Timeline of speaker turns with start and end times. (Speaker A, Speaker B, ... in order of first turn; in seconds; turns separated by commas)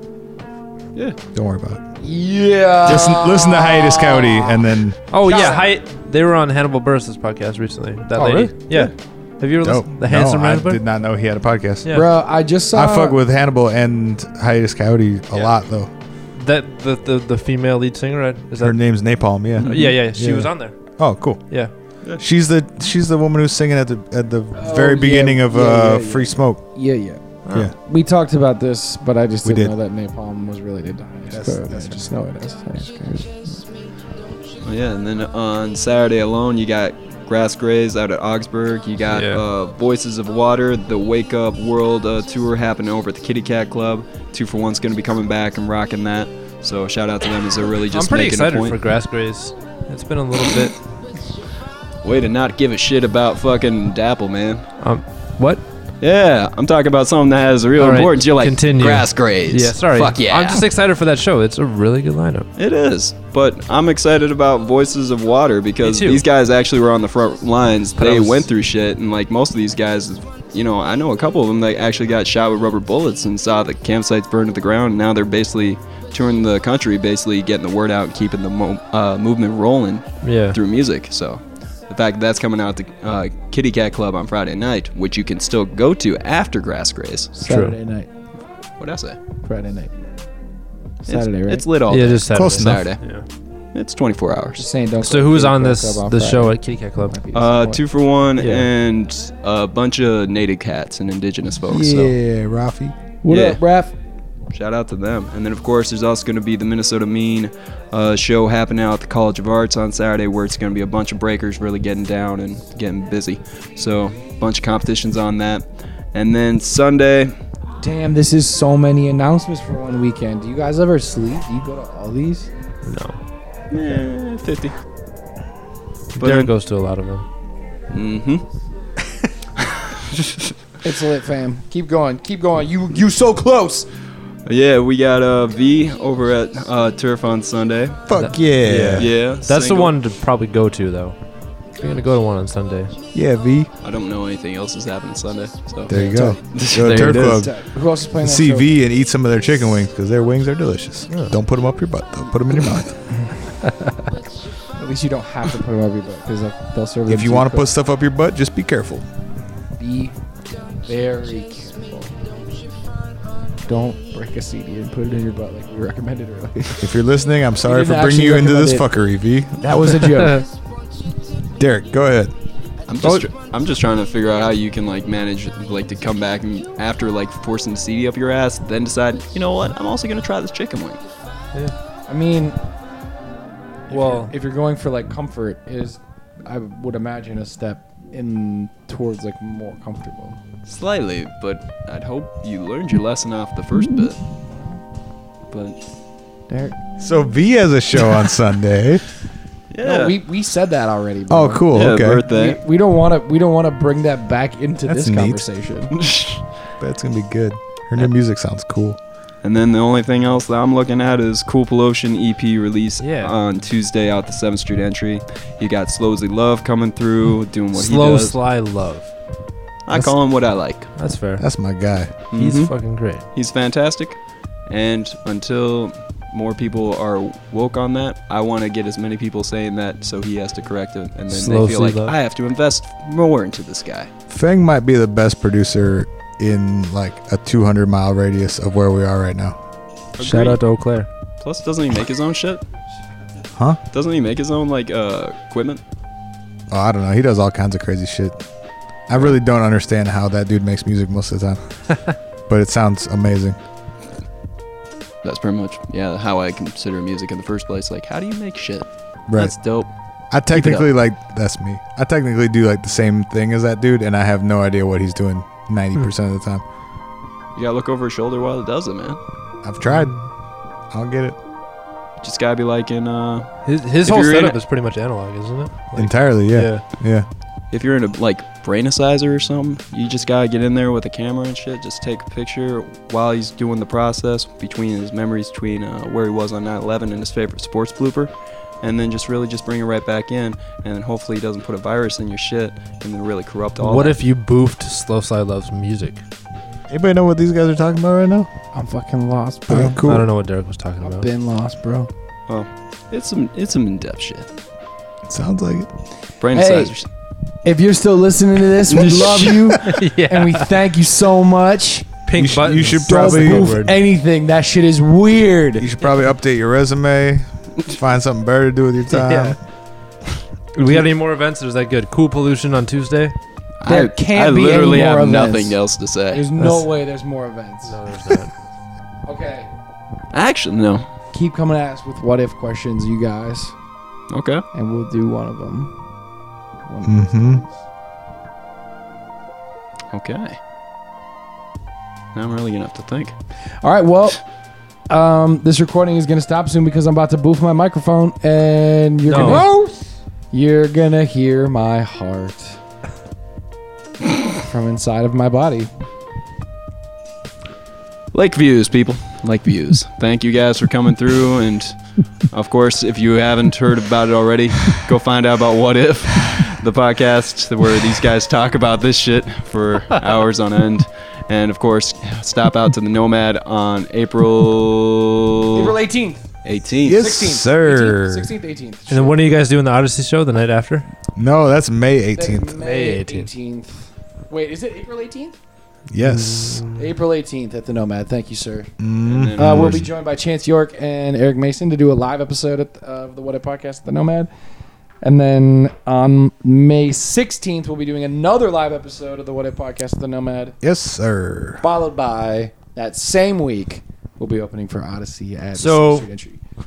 Speaker A: 1.3-1.8, Speaker B: 2.0-4.6, Speaker A: 2.8-5.0, Speaker C: 5.1-10.8, Speaker B: 5.2-5.7, Speaker B: 8.2-8.5, Speaker A: 9.6-12.0, Speaker B: 11.9-13.2, Speaker A: 12.7-15.9, Speaker C: 16.4-18.8, Speaker A: 18.6-21.7, Speaker D: 19.6-20.0, Speaker C: 19.6-20.8, Speaker A: 22.2-26.7, Speaker B: 24.6-33.6, Speaker A: 27.5-27.8, Speaker A: 29.4-29.7, Speaker A: 31.3-32.1, Speaker D: 34.6-48.8, Speaker C: 39.1-39.4, Speaker C: 47.9-50.8, Speaker D: 52.0-54.7, Speaker C: 54.8-55.6, Speaker D: 56.0-60.6, Speaker C: 57.8-62.5, Speaker D: 62.6-87.3, Speaker C: 65.8-66.2, Speaker C: 68.0-68.5, Speaker C: 80.2-80.6, Speaker B: 87.4-88.1, Speaker C: 87.5-87.8, Speaker D: 88.8-89.2, Speaker B: 89.4-89.9, Speaker D: 91.1-93.0, Speaker B: 91.1-91.7, Speaker C: 91.9-93.2, Speaker A: 92.3-93.0, Speaker D: 93.7-94.6, Speaker B: 94.6-97.8, Speaker C: 95.0-97.2, Speaker D: 97.3-102.1, Speaker C: 98.4-98.7, Speaker A: 101.7-103.0, Speaker B: 103.2-103.9, Speaker D: 103.3-103.6, Speaker D: 104.5-117.3, Speaker B: 117.8-122.5, Speaker C: 122.8-123.2, Speaker D: 123.7-124.8, Speaker C: 126.2-127.2, Speaker D: 126.2-126.5, Speaker D: 127.9-128.5, Speaker B: 130.8-133.9, Speaker D: 134.5-138.1, Speaker A: 138.1-139.1, Speaker C: 138.1-141.2, Speaker D: 138.9-140.0, Speaker C: 141.8-143.0, Speaker A: 143.1-143.7, Speaker D: 143.8-147.4, Speaker A: 145.9-147.6, Speaker B: 145.9-146.4, Speaker C: 146.9-147.3, Speaker B: 147.2-148.7, Speaker A: 148.2-153.0, Speaker C: 151.1-151.3, Speaker B: 154.8-157.7, Speaker A: 157.1-159.1, Speaker B: 159.8-160.2, Speaker B: 160.8-162.2, Speaker B: 163.7-166.8, Speaker A: 166.8-170.2, Speaker B: 167.6-168.9, Speaker B: 169.6-170.4, Speaker A: 171.6-172.3, Speaker D: 172.9-181.0, Speaker B: 182.1-182.6, Speaker B: 183.9-190.4, Speaker C: 183.9-184.3, Speaker D: 190.7-194.2, Speaker B: 194.4-194.8, Speaker D: 195.5-195.8, Speaker B: 196.5-196.8, Speaker A: 197.0-199.0, Speaker D: 199.7-200.2, Speaker B: 199.8-205.9, Speaker A: 201.3-202.2, Speaker D: 201.7-202.6, Speaker A: 204.8-205.4, Speaker D: 205.9-206.4, Speaker A: 206.8-209.0, Speaker D: 209.4-218.4, Speaker C: 213.0-213.3, Speaker C: 217.7-219.1, Speaker D: 219.9-220.9, Speaker C: 221.0-221.4, Speaker A: 221.4-222.2, Speaker D: 222.3-222.7, Speaker C: 222.3-223.3, Speaker D: 223.3-234.1, Speaker C: 231.3-232.2, Speaker A: 234.3-239.6, Speaker D: 240.2-240.6, Speaker C: 240.2-241.1, Speaker D: 241.4-242.6, Speaker D: 243.9-245.8, Speaker A: 246.7-248.4, Speaker A: 249.1-251.6, Speaker A: 252.5-253.6, Speaker D: 255.2-259.9, Speaker A: 259.3-259.6, Speaker A: 260.3-266.6, Speaker D: 260.5-260.9, Speaker D: 267.6-269.2, Speaker A: 269.6-270.2, Speaker C: 269.9-270.2, Speaker A: 270.9-271.4, Speaker D: 272.2-274.6, Speaker C: 273.6-276.8, Speaker A: 275.9-277.3, Speaker D: 277.7-288.3, Speaker D: 288.8-294.2, Speaker C: 293.8-296.2, Speaker A: 296.9-298.5, Speaker B: 298.7-300.0, Speaker A: 299.7-300.3, Speaker C: 300.0-301.3, Speaker B: 301.0-302.1, Speaker D: 302.5-304.5, Speaker A: 305.3-305.9, Speaker D: 306.4-307.1, Speaker B: 306.5-306.9, Speaker B: 307.6-312.2, Speaker D: 308.9-309.6, Speaker C: 309.8-310.7, Speaker C: 312.3-314.0, Speaker A: 312.3-313.9, Speaker B: 313.0-315.9, Speaker A: 315.8-319.6, Speaker C: 319.1-319.6, Speaker C: 320.8-323.4, Speaker D: 323.8-326.5, Speaker B: 323.9-325.8, Speaker B: 326.3-328.0, Speaker C: 326.6-326.9, Speaker C: 327.8-328.5, Speaker B: 329.3-329.7, Speaker D: 330.3-331.1, Speaker B: 331.3-333.7, Speaker D: 334.3-334.6, Speaker B: 334.7-336.0, Speaker B: 336.9-337.8, Speaker A: 337.0-337.6, Speaker D: 340.1-340.6, Speaker D: 342.3-343.4, Speaker B: 343.8-344.4, Speaker B: 345.1-350.0, Speaker C: 349.3-349.7, Speaker B: 350.5-352.8, Speaker B: 354.6-355.9, Speaker D: 358.3-376.0, Speaker B: 375.7-376.4, Speaker D: 376.6-377.3, Speaker A: 377.0-378.5, Speaker B: 377.1-379.5, Speaker C: 379.1-381.1, Speaker A: 381.4-382.8, Speaker B: 382.4-385.6, Speaker C: 382.8-383.5, Speaker A: 386.1-386.9, Speaker C: 386.2-387.1, Speaker B: 387.0-388.9, Speaker A: 389.0-390.0, Speaker D: 389.2-390.1, Speaker B: 389.6-394.5, Speaker B: 395.2-400.8, Speaker A: 400.8-401.8, Speaker B: 401.8-406.6, Speaker C: 405.8-406.3